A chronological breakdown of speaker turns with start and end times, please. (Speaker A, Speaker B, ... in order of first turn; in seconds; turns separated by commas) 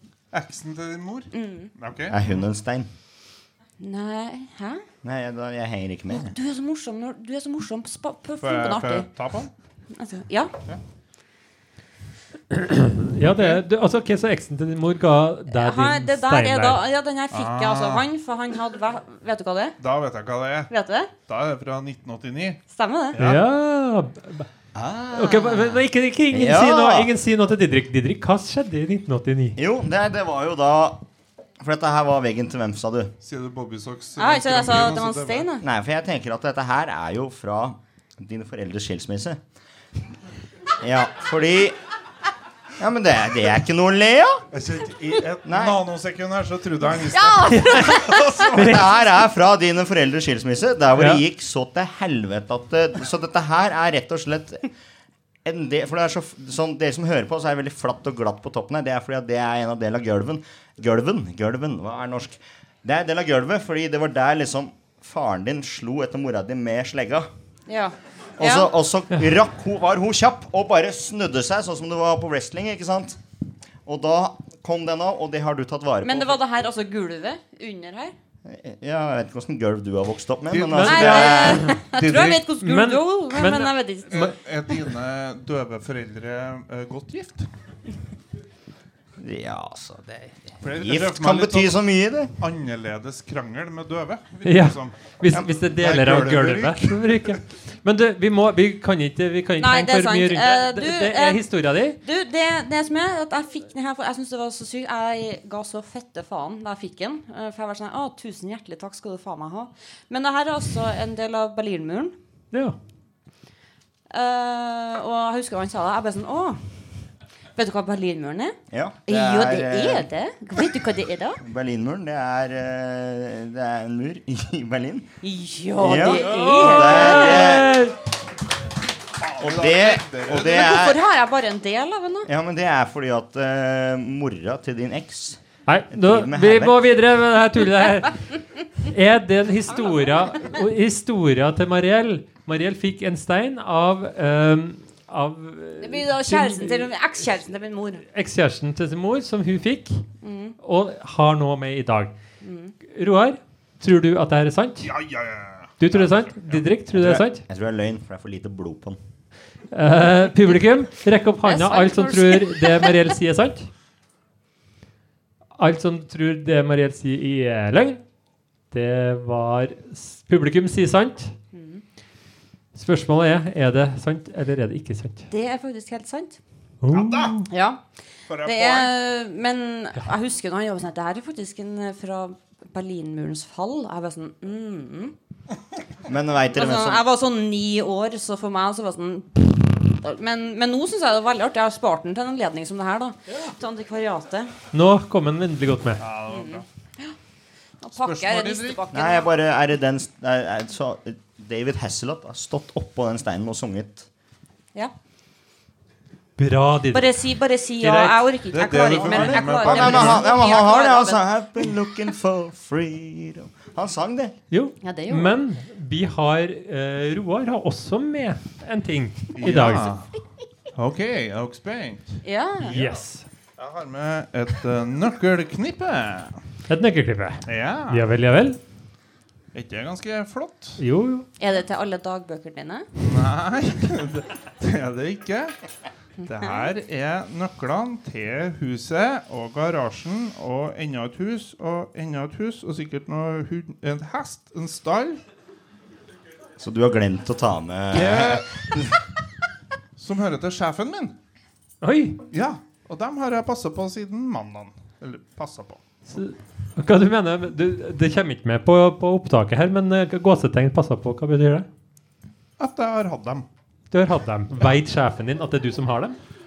Speaker A: 0.3-2.4, Speaker B: 1.3-1.7, Speaker C: 2.1-2.9, Speaker B: 3.8-4.8, Speaker C: 5.0-6.3, Speaker B: 6.1-9.1, Speaker A: 8.4-9.5, Speaker B: 9.9-10.5, Speaker D: 12.5-16.8, Speaker A: 13.2-13.6, Speaker B: 15.5-19.8, Speaker A: 17.3-18.0, Speaker A: 19.8-20.7, Speaker B: 20.7-21.1, Speaker A: 21.3-22.6, Speaker B: 22.7-23.2, Speaker A: 23.1-23.4, Speaker D: 23.2-24.5, Speaker C: 24.7-27.1, Speaker D: 25.1-29.6, Speaker C: 29.6-31.0, Speaker C: 31.6-33.1, Speaker A: 33.2-35.5, Speaker B: 34.2-35.6, Speaker C: 35.6-39.4, Speaker C: 40.8-41.8, Speaker C: 42.8-44.5, Speaker A: 44.5-48.9, Speaker C: 45.5-45.8, Speaker B: 47.0-48.5, Speaker D: 47.5-48.9, Speaker C: 48.5-54.6, Speaker D: 51.0-51.2, Speaker C: 55.5-67.3, Speaker B: 67.7-68.7, Speaker C: 68.4-73.2, Speaker C: 73.8-76.4, Speaker B: 76.0-78.1, Speaker C: 78.5-81.7, Speaker A: 80.5-82.5, Speaker B: 80.8-84.3, Speaker D: 82.6-84.2, Speaker A: 84.1-87.5, Speaker C: 89.2-92.3, Speaker A: 90.6-91.8, Speaker A: 92.4-95.0, Speaker D: 94.4-102.0, Speaker A: 95.8-97.4, Speaker B: 99.6-101.5, Speaker B: 102.0-112.1, Speaker B: 114.1-116.6, Speaker B: 117.6-118.6, Speaker C: 118.7-120.1, Speaker B: 119.1-121.4, Speaker C: 121.4-125.1, Speaker B: 125.2-127.6, Speaker C: 125.8-127.8, Speaker D: 126.2-128.0, Speaker A: 129.2-130.8, Speaker C: 129.4-131.0, Speaker B: 130.4-132.3, Speaker C: 132.3-136.8, Speaker D: 135.7-138.2, Speaker D: 138.8-146.9, Speaker B: 145.8-148.1, Speaker D: 148.1-150.1, Speaker B: 150.2-150.6, Speaker D: 150.6-152.1, Speaker B: 152.4-152.8, Speaker D: 152.9-154.9, Speaker A: 154.8-156.7, Speaker D: 155.8-157.4, Speaker C: 156.9-159.0, Speaker D: 159.7-163.7, Speaker B: 161.4-163.0, Speaker D: 165.6-168.0, Speaker D: 168.7-171.4, Speaker B: 171.5-171.8, Speaker D: 172.8-175.3, Speaker B: 175.3-176.4, Speaker D: 176.8-177.5, Speaker A: 176.9-177.5, Speaker B: 177.5-177.8, Speaker A: 178.3-178.9, Speaker B: 178.4-185.2, Speaker C: 186.1-187.0, Speaker B: 186.5-194.5, Speaker D: 194.7-196.0, Speaker A: 196.0-196.7, Speaker B: 196.3-197.2, Speaker B: 197.8-199.3, Speaker A: 198.0-198.8, Speaker C: 198.9-204.1, Speaker D: 206.4-207.2, Speaker B: 206.9-211.2, Speaker D: 207.8-208.3, Speaker A: 208.5-210.5, Speaker C: 208.9-214.3, Speaker D: 214.5-219.9, Speaker B: 214.8-215.4, Speaker A: 219.3-220.1, Speaker A: 220.7-223.0, Speaker B: 222.2-222.8, Speaker D: 222.7-223.3, Speaker A: 223.6-226.4, Speaker D: 226.7-228.6, Speaker A: 227.5-228.1, Speaker A: 229.5-230.8, Speaker D: 230.8-231.3, Speaker B: 231.4-232.9, Speaker A: 233.0-235.6, Speaker A: 236.2-245.2, Speaker C: 246.6-248.9, Speaker A: 247.9-248.6, Speaker A: 250.0-251.2, Speaker D: 251.8-252.2, Speaker A: 252.3-255.8, Speaker D: 256.1-261.7, Speaker A: 262.6-263.5, Speaker D: 263.9-266.2